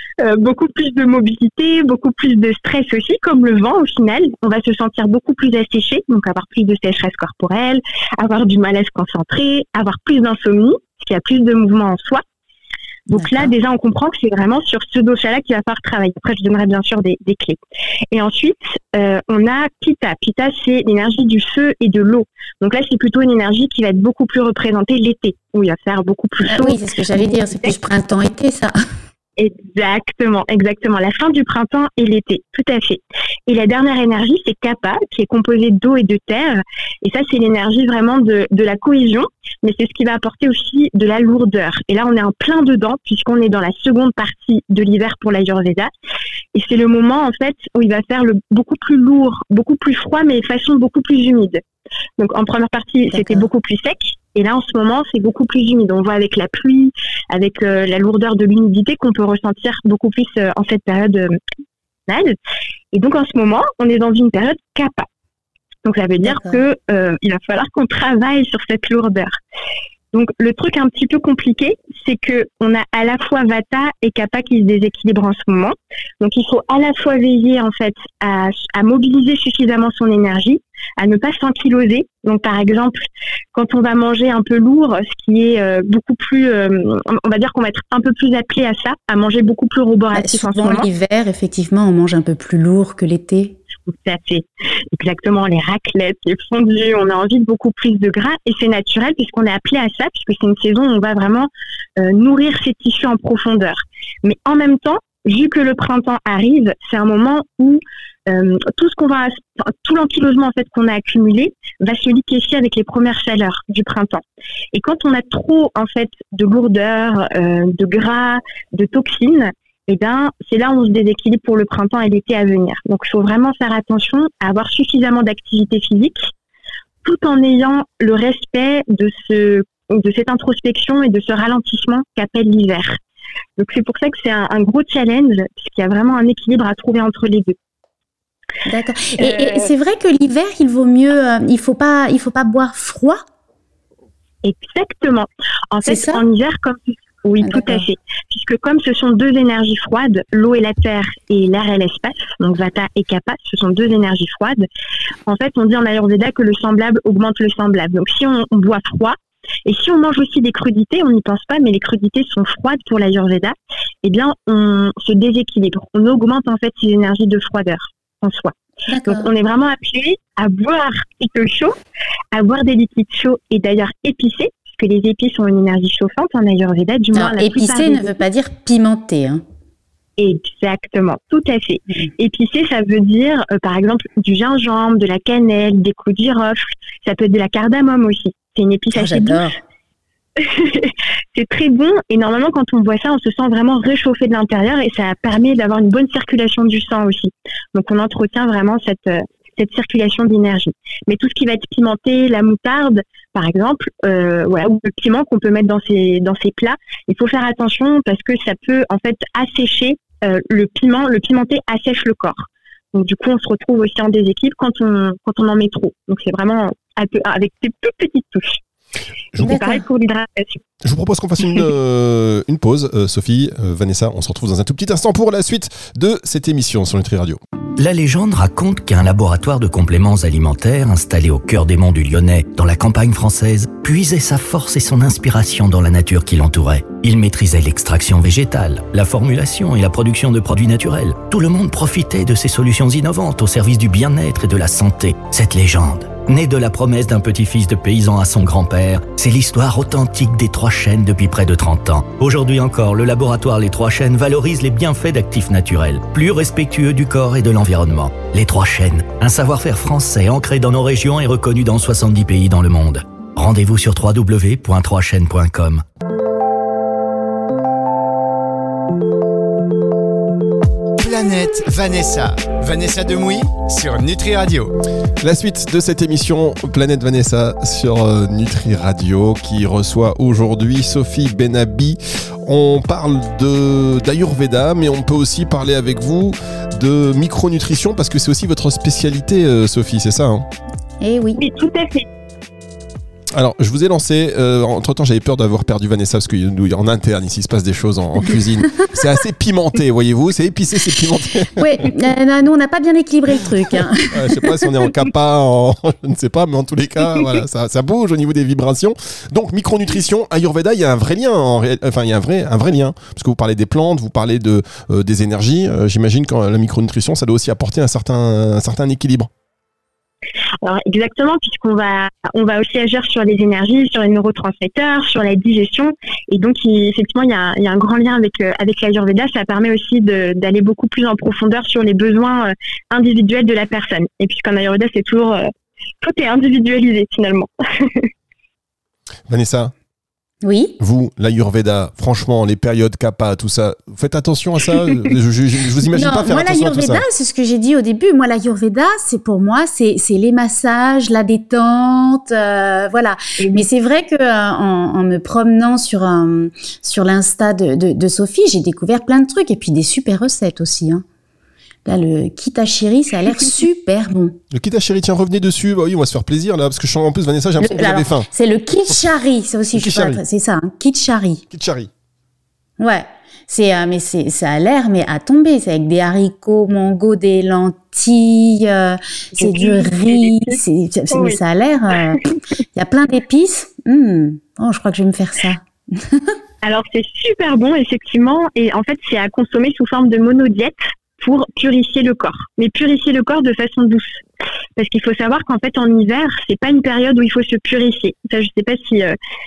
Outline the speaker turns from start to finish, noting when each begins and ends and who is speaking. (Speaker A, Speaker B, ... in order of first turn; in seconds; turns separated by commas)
Speaker A: 0.2-12.2, Speaker A: 13.1-17.6, Speaker B: 13.1-13.5, Speaker A: 18.1-27.8, Speaker B: 26.4-28.8, Speaker A: 29.4-45.9, Speaker A: 46.5-51.6, Speaker A: 52.2-61.4, Speaker B: 53.1-53.5, Speaker A: 62.1-62.4, Speaker A: 62.9-65.1, Speaker A: 65.8-69.4, Speaker B: 66.2-66.6, Speaker A: 70.1-83.0, Speaker A: 83.5-90.9, Speaker B: 90.2-93.6, Speaker A: 93.9-126.3, Speaker A: 127.0-133.0, Speaker A: 133.6-137.6, Speaker B: 138.7-143.2, Speaker A: 139.2-139.7, Speaker A: 144.4-154.6, Speaker B: 145.8-146.2, Speaker B: 147.4-147.9, Speaker A: 155.3-168.5, Speaker B: 168.9-169.3, Speaker A: 169.1-171.8, Speaker A: 172.3-178.1, Speaker B: 177.1-179.4, Speaker A: 180.2-189.4, Speaker B: 188.9-189.6, Speaker A: 190.4-218.6, Speaker A: 219.4-220.6, Speaker B: 219.4-219.8, Speaker C: 220.8-227.4, Speaker D: 227.8-265.8, Speaker E: 271.0-274.7, Speaker C: 275.2-290.5, Speaker B: 291.0-291.4, Speaker A: 291.4-292.1, Speaker C: 293.4-301.9, Speaker B: 301.6-304.3, Speaker C: 304.1-319.3, Speaker A: 320.6-335.5, Speaker A: 336.0-338.1, Speaker C: 339.3-339.7, Speaker B: 340.4-340.8, Speaker C: 340.8-347.0, Speaker B: 345.9-361.0, Speaker A: 353.4-353.6, Speaker B: 361.9-364.4, Speaker C: 364.5-368.3, Speaker B: 367.6-371.4, Speaker C: 369.7-370.2, Speaker C: 371.5-371.9, Speaker B: 372.8-382.2, Speaker A: 379.4-380.6, Speaker A: 381.1-381.4, Speaker B: 382.8-386.3, Speaker A: 386.6-394.2, Speaker A: 394.8-399.2